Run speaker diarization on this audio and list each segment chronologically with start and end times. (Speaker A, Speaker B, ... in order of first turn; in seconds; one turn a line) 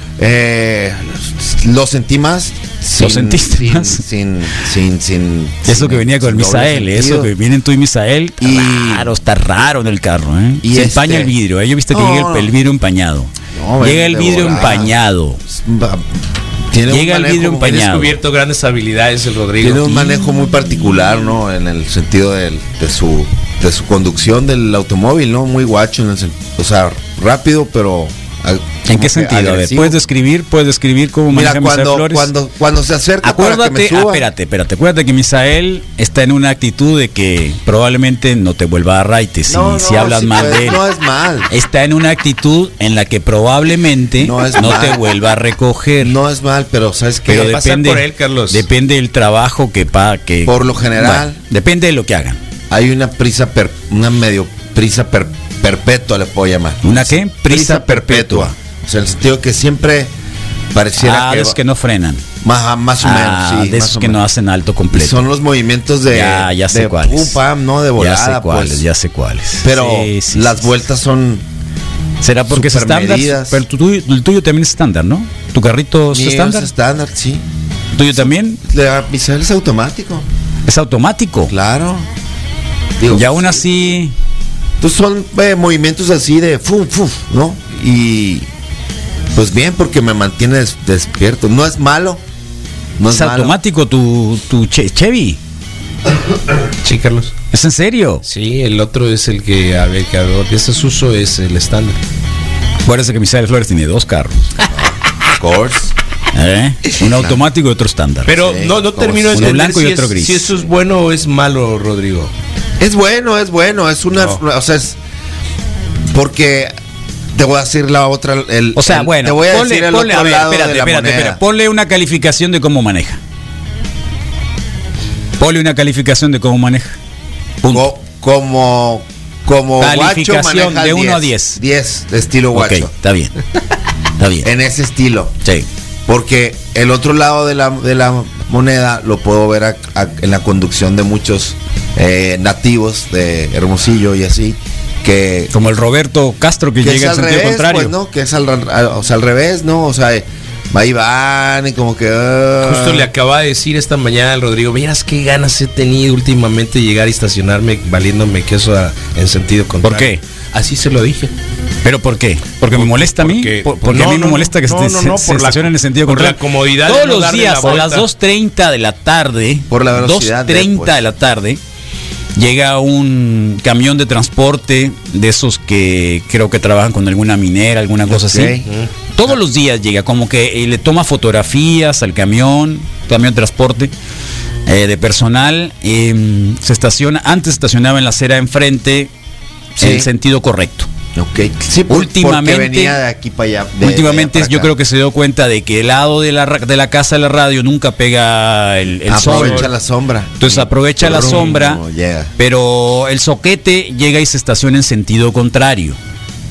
Speaker A: 0.2-7.3
Speaker B: 3.0-4.0
Speaker B: 5.7-15.4
Speaker A: 8.4-9.1
Speaker A: 10.6-11.3
Speaker A: 11.9-12.5
Speaker A: 13.5-14.9
Speaker A: 15.5-16.1
Speaker A: 16.7-17.9
Speaker B: 16.9-18.1
Speaker C: 17.7-20.0
Speaker A: 19.6-30.0
Speaker B: 28.9-32.3
Speaker A: 31.3-34.3
Speaker B: 33.2-40.8
Speaker A: 39.5-41.5
Speaker B: 41.5-46.1
Speaker A: 44.2-45.1
Speaker A: 46.0-47.6
Speaker B: 47.3-52.4
Speaker C: 47.3-48.6
Speaker A: 50.5-51.4
Speaker A: 52.7-60.1
Speaker B: 56.8-58.5
Speaker A: 60.7-61.6
Speaker B: 61.0-62.2
Speaker A: 62.4-64.2
Speaker B: 63.0-65.2
Speaker A: 64.9-68.8
Speaker B: 66.1-67.4
Speaker B: 68.0-70.7
Speaker A: 69.6-71.4
Speaker B: 72.2-76.7
Speaker A: 72.5-73.6
Speaker A: 76.1-77.5
Speaker B: 78.0-78.6
Speaker A: 78.2-80.2
Speaker B: 80.7-81.5
Speaker A: 81.5-82.1
Speaker A: 83.0-83.7
Speaker B: 83.1-84.1
Speaker A: 84.8-88.5
Speaker A: 89.3-92.2
Speaker A: 93.0-93.6
Speaker B: 93.1-95.4
Speaker C: 96.8-97.3
Speaker B: 97.5-98.2
Speaker C: 98.2-102.0
Speaker B: 102.8-104.4
Speaker A: 104.7-105.9
Speaker B: 106.3-108.4
Speaker A: 107.0-107.4
Speaker C: 108.3-112.3
Speaker A: 108.4-109.6
Speaker B: 109.3-110.5
Speaker A: 112.8-115.0
Speaker A: 116.1-116.7
Speaker A: 117.3-121.4
Speaker B: 118.8-123.2
Speaker B: 125.4-127.0
Speaker B: 127.6-127.9
Speaker A: 127.7-132.9
Speaker B: 129.8-131.6
Speaker B: 132.5-133.3
Speaker B: 134.2-134.5
Speaker A: 134.4-135.3
Speaker A: 136.1-145.5
Speaker B: 145.5-147.9
Speaker A: 146.8-153.1
Speaker C: 152.6-161.3
Speaker B: 159.8-160.2
Speaker B: 161.8-171.6
Speaker C: 162.7-168.1
Speaker A: 169.7-171.0
Speaker B: 172.4-178.6
Speaker A: 178.1-178.7
Speaker B: 179.2-183.9
Speaker B: 184.7-189.1
Speaker A: 189.8-190.1
Speaker B: 189.8-190.9
Speaker A: 191.2-194.7
Speaker B: 191.9-193.0
Speaker B: 193.8-199.7
Speaker A: 199.1-202.3
Speaker C: 199.2-199.7
Speaker B: 200.4-201.8
Speaker B: 202.4-206.0